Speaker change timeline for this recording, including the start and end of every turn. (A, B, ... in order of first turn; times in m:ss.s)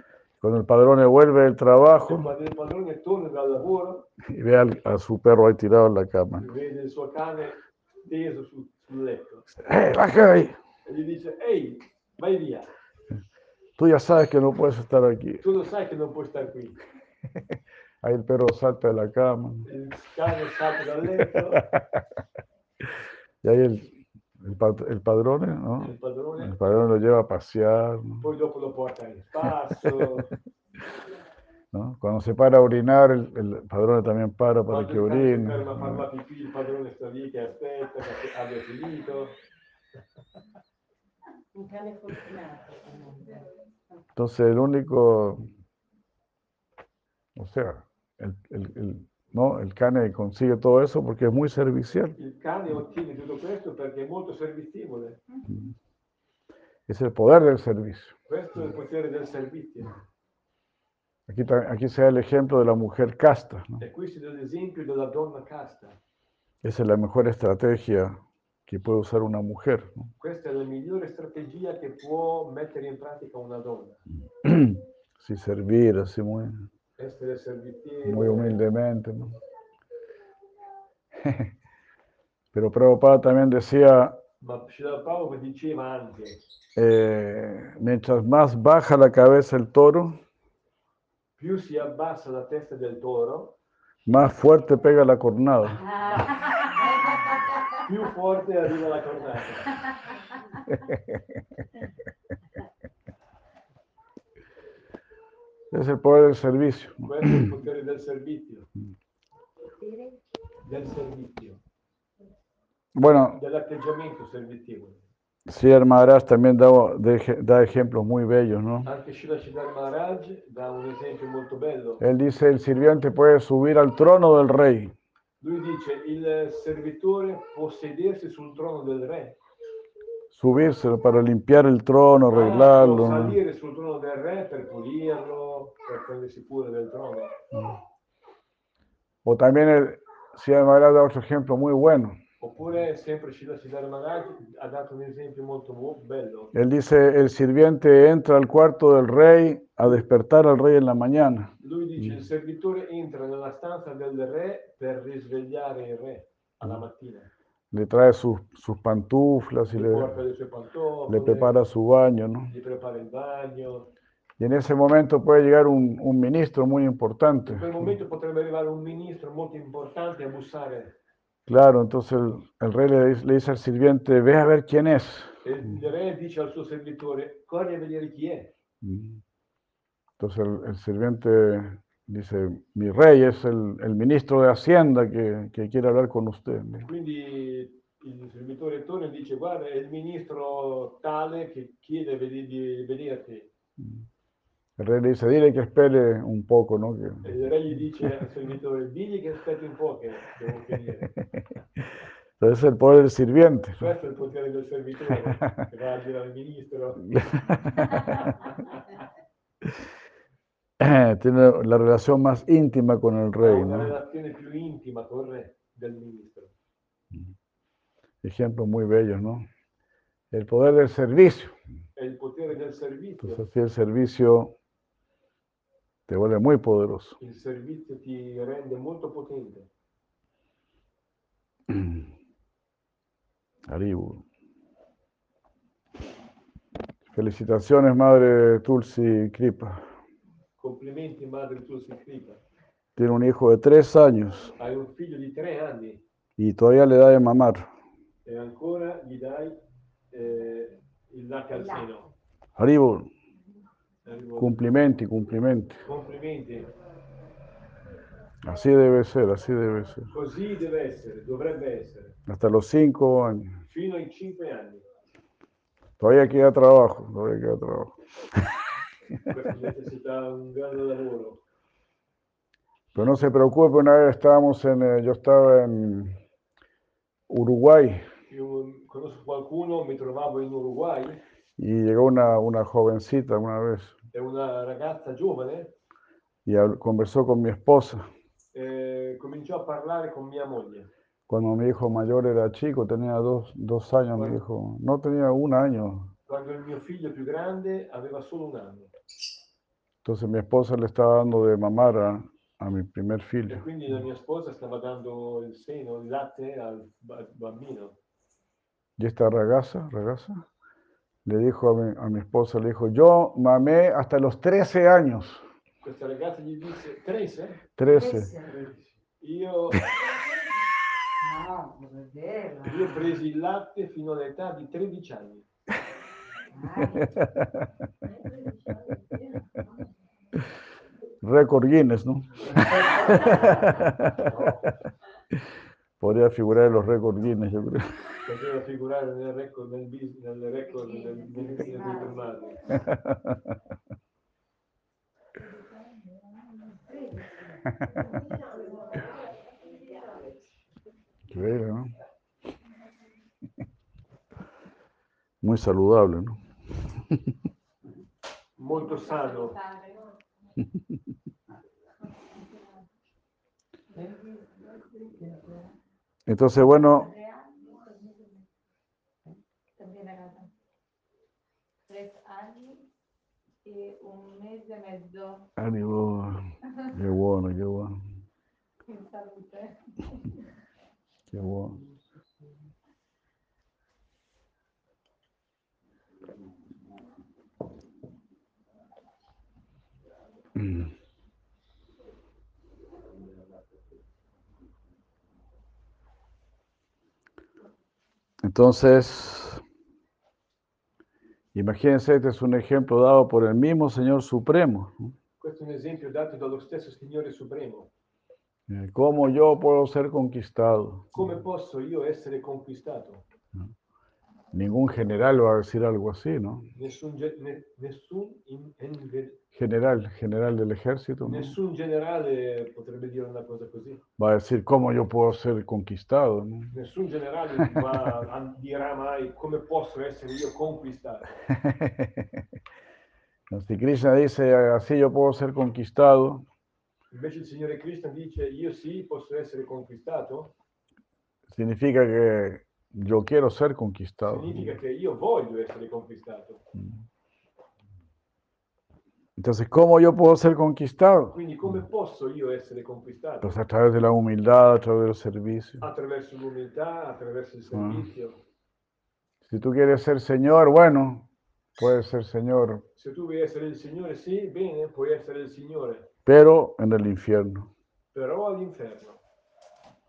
0:00.4-0:02.3 A
0:02.0-0:04.1 B
0:04.2-0:06.5 A
0:06.4-0:09.5 B
0:09.6-0:10.6 A
0:10.9-0:12.7 B
0:13.8-0:15.4 A
0:15.4-0:16.8 B
0:18.0-0:19.7 A
0:19.7-0:21.7 B
0:21.5-0:22.0 A
0:23.4-0:28.3 A
0:25.8-0:26.8 B
0:28.2-0:30.3 B
0:31.7-0:36.1 A
0:34.7-0:39.4 B
0:41.5-0:43.4 C
0:44.2-0:45.5 A
0:47.4-0:52.2 A
0:52.2-0:55.2 B
0:55.5-0:55.7 A
0:56.9-0:58.1 A
0:58.3-1:00.0 B
1:01.3-1:03.8 A
1:03.8-1:06.0 B
1:06.6-1:10.1 A
1:10.2-1:14.0 B
1:14.4-1:16.7 A
1:17.0-1:18.6 B
1:18.0-1:19.4 A
1:21.2-1:21.5 A
1:22.5-1:24.2 A
1:24.4-1:26.4 B
1:26.8-1:30.2 A
1:31.4-1:33.6 B
1:34.1-1:35.9 A
1:37.8-1:39.8 B
1:40.7-1:41.2 A
1:45.7-1:47.5 A
1:47.0-1:48.7 B
1:49.8-1:50.1 D
1:50.6-1:51.6 B
1:53.0-1:53.4 A
1:53.1-1:55.1 B
1:55.5-1:58.9 A
1:58.8-2:02.0 B
2:02.0-2:04.9 A
2:05.4-2:09.4 B
2:10.3-2:13.4 A
2:12.3-2:17.4 B
2:19.2-2:22.2 A
2:22.4-2:26.6 B
2:26.5-2:32.0 A
2:31.6-2:37.3 B
2:37.7-2:40.2 A
2:39.8-2:41.6 B
2:41.1-2:42.5 A
2:42.5-2:43.9 B
2:44.4-2:47.9 A
2:47.5-2:51.0 B
2:51.5-2:55.4 A
2:55.4-2:58.5 B
2:58.8-2:59.2 A
3:00.2-3:06.9 A
3:06.8-3:13.5 B
3:13.8-3:14.0 A
3:14.8-3:17.3 A
3:17.2-3:21.2 B
3:22.4-3:23.9 A
3:23.8-3:27.2 B
3:27.1-3:28.4 A
3:30.8-3:34.0 A
3:33.4-3:36.5 B
3:38.2-3:39.5 A
3:40.3-3:41.6 A
3:42.0-3:43.4 B
3:43.2-3:44.6 A
3:46.1-3:47.2 A
3:47.2-3:49.7 B
3:51.7-3:52.1 A
3:53.7-3:54.2 A
3:57.1-3:59.9 A
4:00.6-4:02.4 B
4:03.0-4:04.5 A
4:04.6-4:06.0 B
4:06.4-4:07.7 A
4:08.2-4:09.6 B
4:10.1-4:12.1 B
4:12.6-4:13.1 A
4:14.0-4:14.6 B
4:14.4-4:15.8 A
4:15.9-4:16.7 B
4:18.4-4:20.1 A
4:20.1-4:22.2 B
4:22.3-4:23.6 A
4:23.7-4:24.9 B
4:26.0-4:28.5 A
4:29.2-4:31.4 B
4:32.9-4:36.2 A
4:37.3-4:38.1 A
4:38.3-4:41.2 B
4:41.6-4:44.0 A
4:44.1-4:45.7 B
4:46.5-4:48.1 A
4:48.5-4:50.9 B
4:51.3-4:56.1 A
4:56.3-4:58.9 B
5:00.0-5:03.7 A
5:03.5-5:08.0 B
5:09.0-5:10.4 A
5:11.2-5:15.4 A
5:15.8-5:17.6 B
5:17.8-5:18.4 A
5:17.9-5:18.6 C
5:18.5-5:19.9 B
5:21.2-5:23.2 C
5:22.6-5:25.5 B
5:26.5-5:27.2 C
5:27.0-5:27.7 A
5:31.2-5:34.4 A
5:34.2-5:34.6 B
5:36.0-5:38.0 A
5:38.2-5:42.7 B
5:41.0-5:42.4 C
5:42.8-5:43.6 A
5:45.4-5:46.8 D
5:46.9-5:47.4 C
5:49.9-5:50.2 D
5:51.3-5:51.9 A
5:55.4-5:57.3 A
5:58.6-5:59.6 B
5:58.8-6:00.1 D
6:02.2-6:02.8 D
6:03.9-6:05.7 D
6:06.3-6:07.1 A
6:06.7-6:08.5 D
6:09.8-6:10.5 D
6:11.9-6:12.8 D
6:13.6-6:15.5 D
6:15.6-6:18.0 A
6:18.9-6:20.3 D
6:21.3-6:21.8 A
6:30.6-6:30.9 A
6:38.4-6:39.6 A
6:41.5-6:45.1 A
6:45.4-6:47.9 B
6:48.7-6:51.3 A
6:51.1-6:53.2 B
6:54.5-6:56.7 A
6:56.8-6:59.4 B
6:59.5-7:01.6 A
7:01.2-7:04.0 B
7:04.2-7:06.7 A
7:06.7-7:11.4 B
7:11.5-7:12.4 A
7:13.5-7:16.4 A
7:17.1-7:20.5 B
7:21.5-7:24.7 A
7:24.2-7:26.6 B
7:29.4-7:31.4 A
7:31.3-7:33.6 B
7:33.4-7:35.8 A
7:35.8-7:38.4 B
7:37.7-7:38.0 A
7:39.4-7:41.3 A
7:41.8-7:42.8 A
7:43.0-7:46.1 B
7:46.3-7:47.7 A
7:48.1-7:49.2 B